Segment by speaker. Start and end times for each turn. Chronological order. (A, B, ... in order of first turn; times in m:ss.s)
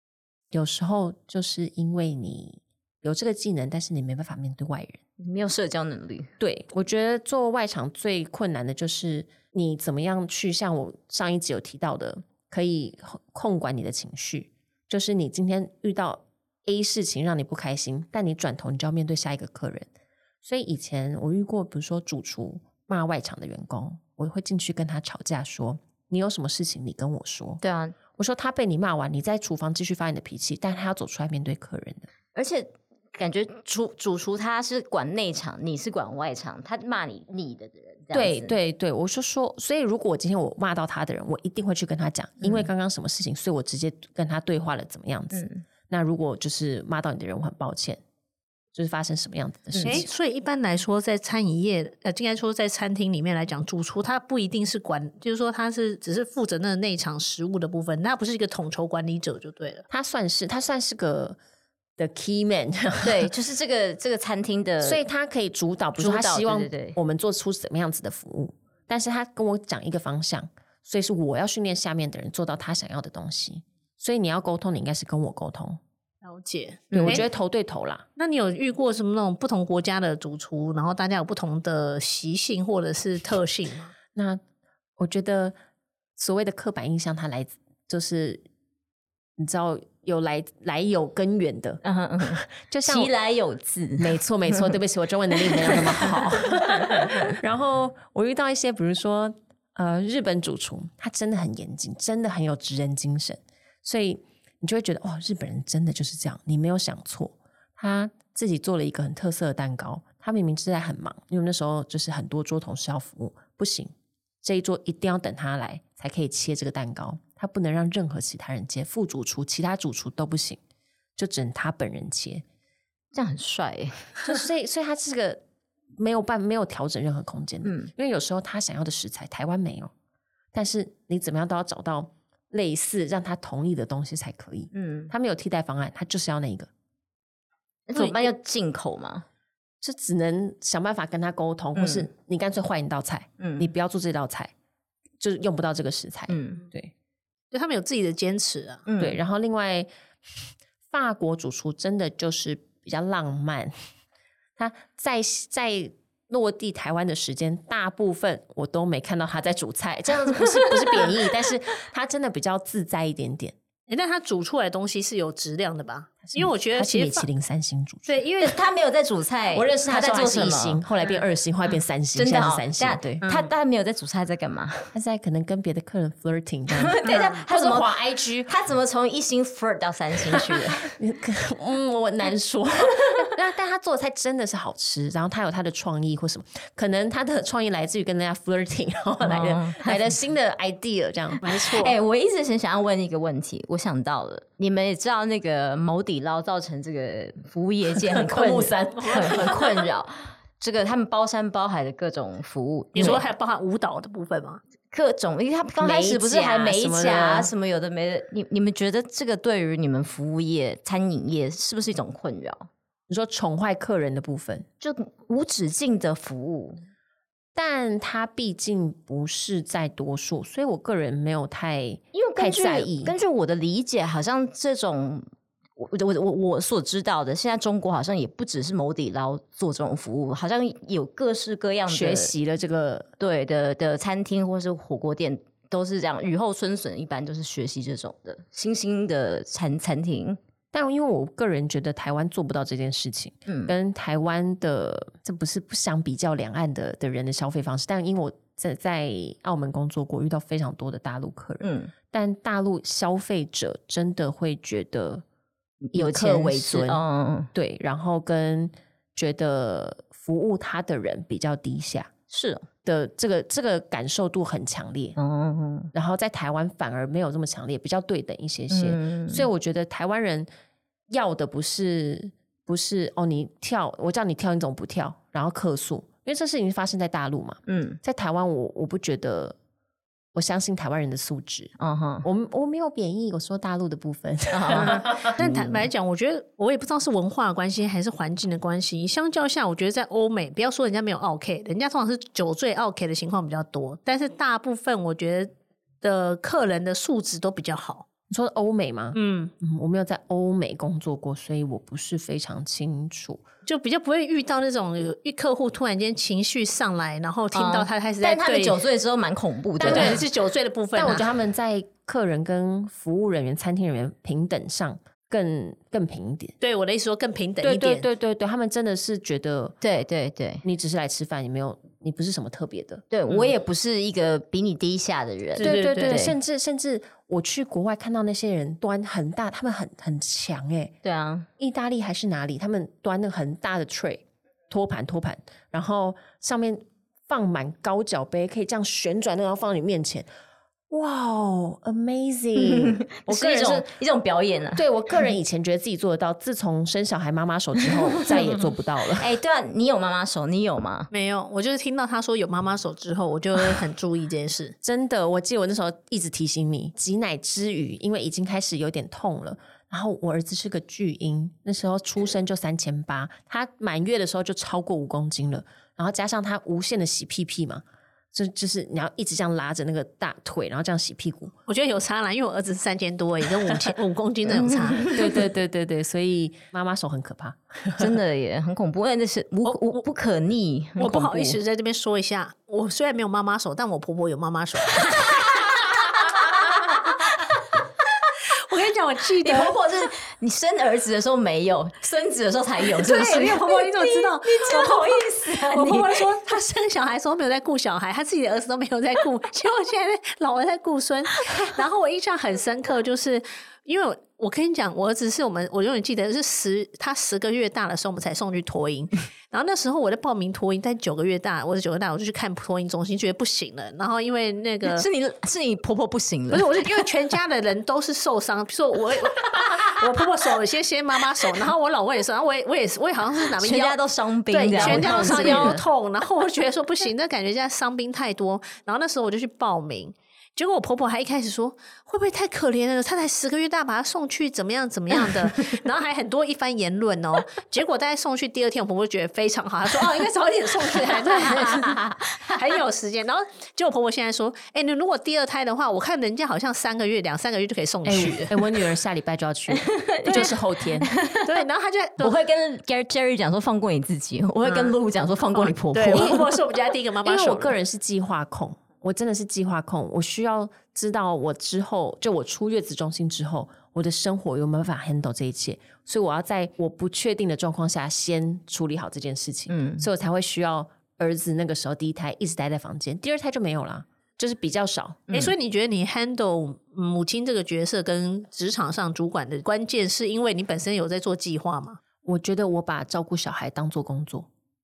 0:00.5-0:05.0 A
0:05.2-0:06.3 B
0:06.4-0:19.9 A
0:20.4-0:27.6 A
0:27.6-0:28.0 B
0:28.2-0:32.1 A
0:32.3-0:38.5 B
0:38.1-0:48.0 A
0:42.4-0:42.7 B
0:45.3-0:45.6 B
0:48.8-0:50.1 A
0:49.7-0:50.0 B
0:49.8-0:59.9 C
0:59.9-1:01.4 A
1:02.0-1:03.3 A
1:03.0-1:05.0 B
1:04.8-1:15.8 A
1:06.0-1:07.0 B
1:16.2-1:17.2 C
1:16.9-1:17.2 B
1:16.9-1:18.1 A
1:18.2-1:23.9 C
1:24.1-1:24.4 A
1:25.0-1:25.6 A
1:26.2-1:28.4 A
1:29.4-1:33.1 A
1:31.8-1:34.7 B
1:34.0-2:00.6 A
1:35.5-1:36.2 B
1:36.8-1:37.3 B
2:01.2-2:02.4 A
2:03.1-2:04.2 B
2:04.2-2:05.4 A
2:06.0-2:09.9 A
2:07.6-2:07.9 B
2:10.5-2:16.7 A
2:14.7-2:15.1 B
2:17.9-2:19.2 B
2:19.8-2:24.5 A
2:21.8-2:22.1 B
2:23.4-2:23.7 B
2:25.2-2:26.9 A
2:26.3-2:26.6 B
2:27.5-2:28.9 C
2:28.9-2:29.2 B
2:29.0-2:29.9 A
2:30.9-2:33.7 A
2:34.6-2:43.6 A
2:40.3-2:41.0 B
2:43.9-2:47.3 C
2:46.2-2:48.2 A
2:48.1-2:48.5 C
2:48.4-2:50.8 B
2:49.5-2:53.2 A
2:52.2-2:54.9 B
2:53.2-2:53.5 C
2:54.9-2:58.5 A
2:56.8-2:57.9 B
2:57.1-2:57.4 C
2:58.4-3:00.9 B
3:00.3-3:11.4 A
3:09.2-3:10.2 B
3:11.4-3:12.0 C
3:11.5-3:23.2 B
3:17.9-3:19.8 A
3:19.1-3:19.5 C
3:23.0-3:24.6 C
3:24.9-3:32.7 B
3:25.8-3:27.5 A
3:33.1-3:34.7 A
3:34.8-3:36.8 B
3:37.6-3:43.2 A
3:42.1-3:52.3 B
3:51.9-3:53.1 A
3:53.2-4:00.4 B
4:00.7-4:15.2 A
4:03.5-4:03.7 B
4:11.6-4:11.9 B
4:15.8-4:17.5 B
4:15.9-4:17.0 A
4:17.5-4:22.1 A
4:22.3-4:22.7 B
4:22.8-4:25.2 A
4:25.2-4:25.9 B
4:25.9-4:30.5 A
4:28.7-4:29.5 B
4:31.1-4:39.6 A
4:37.7-4:38.0 B
4:40.4-4:45.4 A
4:41.8-4:42.3 B
4:44.5-4:45.9 B
4:44.7-4:58.1 C
4:58.3-5:03.5 A
4:59.1-4:59.5 C
5:03.7-5:08.8 C
5:07.5-5:10.2 B
5:09.8-5:10.2 A
5:09.8-5:11.3 C
5:10.9-5:16.6 A
5:16.6-5:18.1 C
5:17.6-5:19.8 A
5:19.8-5:20.6 B
5:20.6-5:23.0 A
5:23.1-5:26.4 B
5:25.6-5:31.0 A
5:25.6-5:26.2 C
5:31.0-5:31.5 B
5:31.6-5:40.3 A
5:40.9-5:43.9 A
5:42.6-5:44.8 B
5:44.8-5:49.3 A
5:49.2-5:51.1 B
5:51.1-5:54.8 C
5:54.8-6:11.5 A
6:11.7-6:15.1 C
6:14.5-6:15.4 B
6:15.1-6:18.1 A
6:18.0-6:21.6 B
6:21.0-6:27.2 C
6:25.1-6:27.6 B
6:28.5-6:29.8 C
6:29.4-6:36.2 B
6:32.9-6:55.1 C
6:54.9-6:57.1 B
6:56.5-7:04.0 C
7:03.6-7:05.8 B
7:04.5-7:28.6 C
7:04.6-7:05.9 A
7:21.6-7:22.1 B
7:28.0-7:31.1 A
7:29.7-7:31.6 B
7:30.3-7:30.6 C
7:31.4-7:32.4 C
7:32.2-7:36.5 B
7:34.6-7:35.0 C
7:35.6-7:37.8 C
7:37.2-7:55.3 A
7:49.7-7:50.0 B
7:55.3-8:02.0 C
8:02.2-8:04.5 A